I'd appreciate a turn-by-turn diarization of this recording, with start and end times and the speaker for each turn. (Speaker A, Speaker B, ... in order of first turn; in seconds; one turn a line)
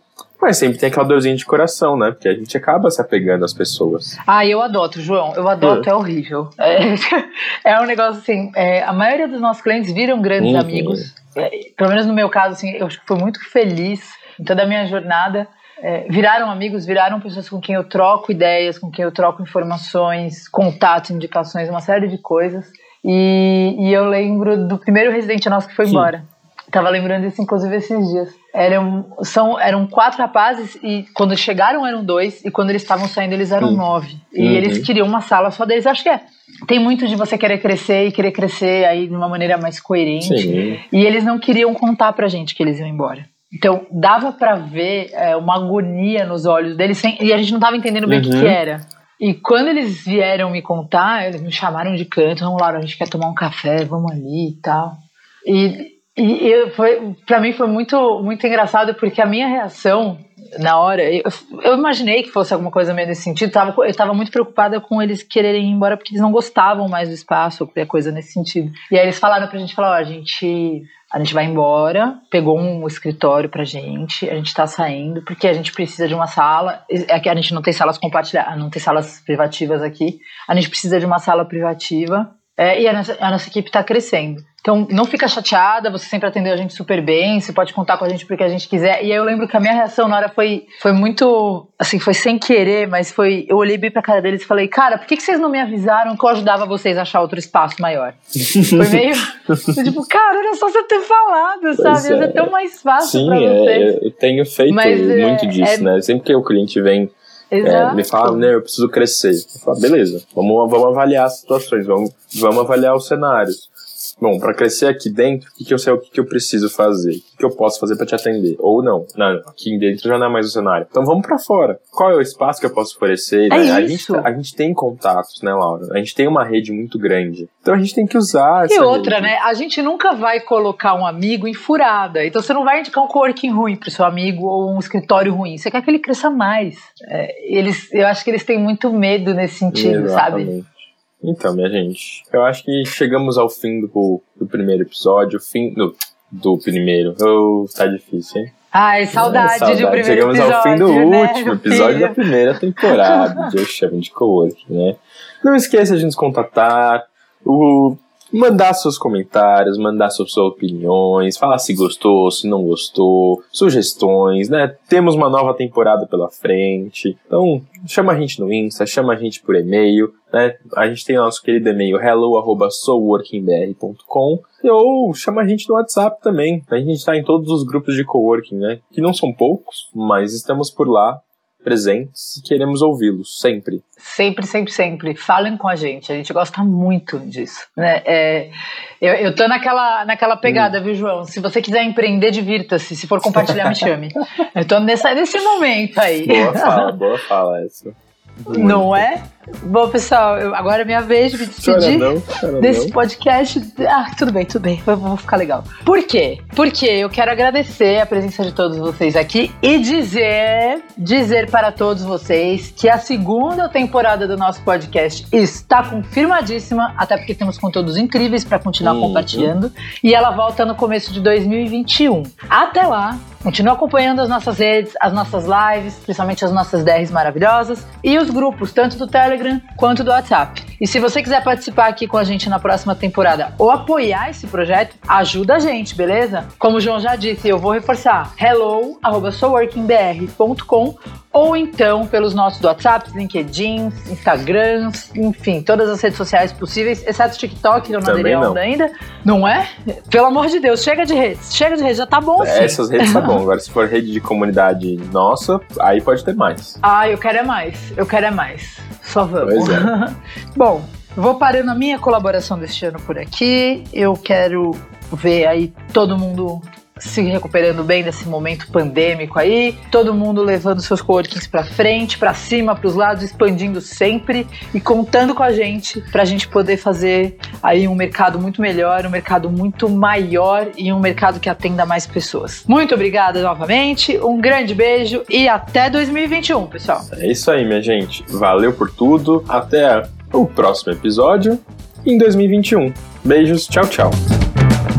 Speaker A: 0.4-4.2
Speaker B: 4.3-103.9
Speaker A: 5.6-5.9
Speaker A: 10.4-11.1
Speaker A: 34.4-34.9
Speaker A: 40.2-40.8
Speaker A: 48.1-48.6
Speaker A: 98.4-98.8
Speaker A: 101.8-129.3
Speaker B: 104.7-105.9
Speaker B: 107.5-108.5
Speaker B: 123.5-124.3
Speaker B: 128.7-140.5
Speaker A: 139.7-148.5
Speaker B: 148.7-152.2
Speaker A: 149.1-183.8
Speaker B: 152.8-153.5
Speaker B: 184.0-197.0
Speaker A: 196.2-199.0
Speaker B: 198.5-253.4
Speaker A: 201.6-202.9
Speaker A: 218.8-219.5
Speaker A: 248.0-248.6
Speaker A: 252.4-256.8
Speaker B: 256.8-287.1
Speaker A: 259.4-259.9
Speaker A: 287.1-294.2